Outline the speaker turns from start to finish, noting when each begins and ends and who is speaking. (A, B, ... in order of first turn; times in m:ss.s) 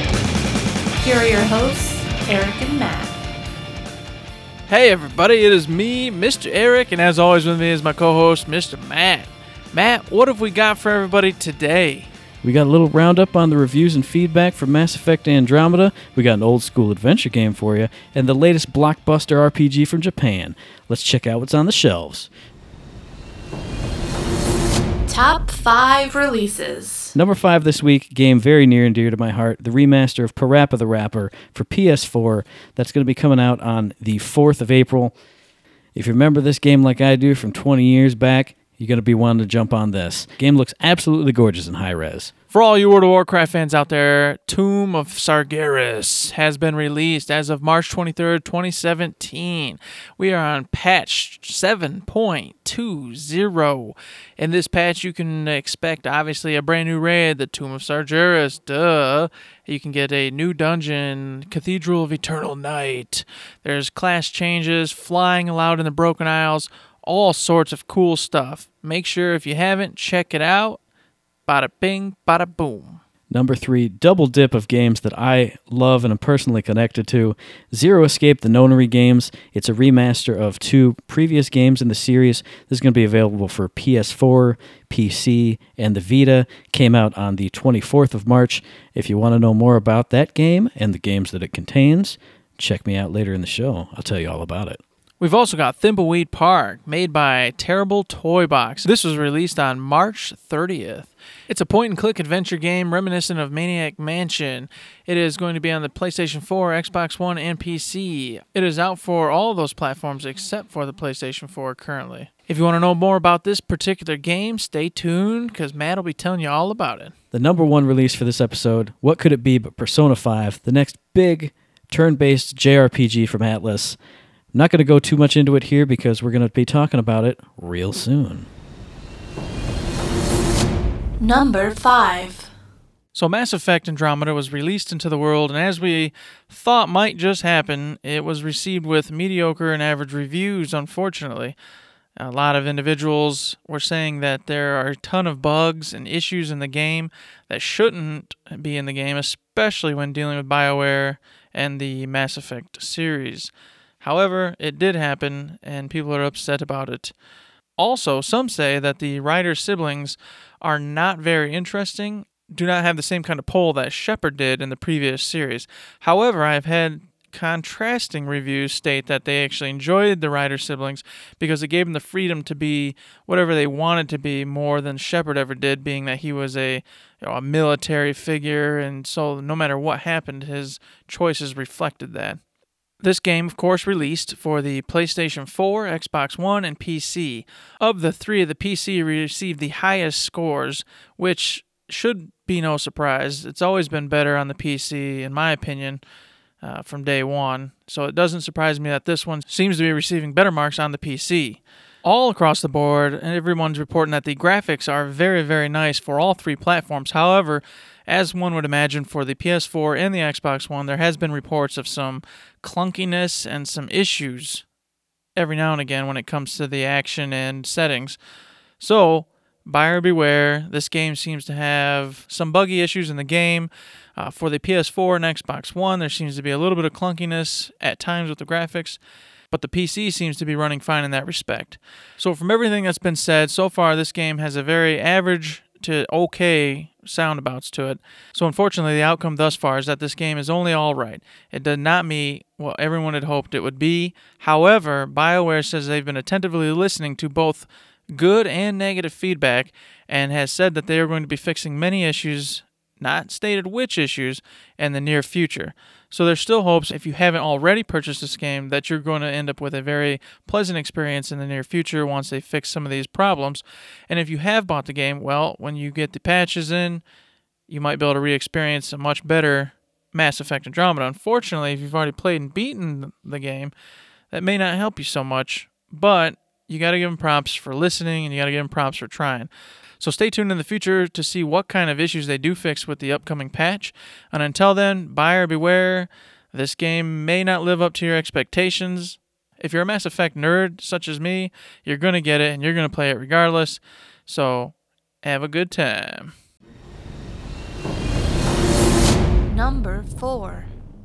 0:01.0-0:03.2 A
0:04.7-0:12.1 B
0:12.4-0:22.3 C
0:25.1-0:27.1 A
0:27.1-0:35.1 C
0:35.9-0:42.3 C
0:42.5-1:10.8 B
1:11.4-1:13.0 B
1:13.3-1:34.8 C
1:35.2-1:57.1 B
1:57.3-2:04.0 C
2:04.5-2:08.5 C
2:11.2-2:12.5 A
2:13.1-2:21.5 B
2:22.2-2:37.1 B
2:37.8-3:02.4 B
3:03.0-3:16.0 B
3:16.6-3:34.6 B
3:35.4-3:38.2 B
3:38.8-3:49.0 B
3:49.5-4:27.0 B
4:27.7-4:33.7 B
4:34.3-4:56.3 B
4:59.5-5:00.7 A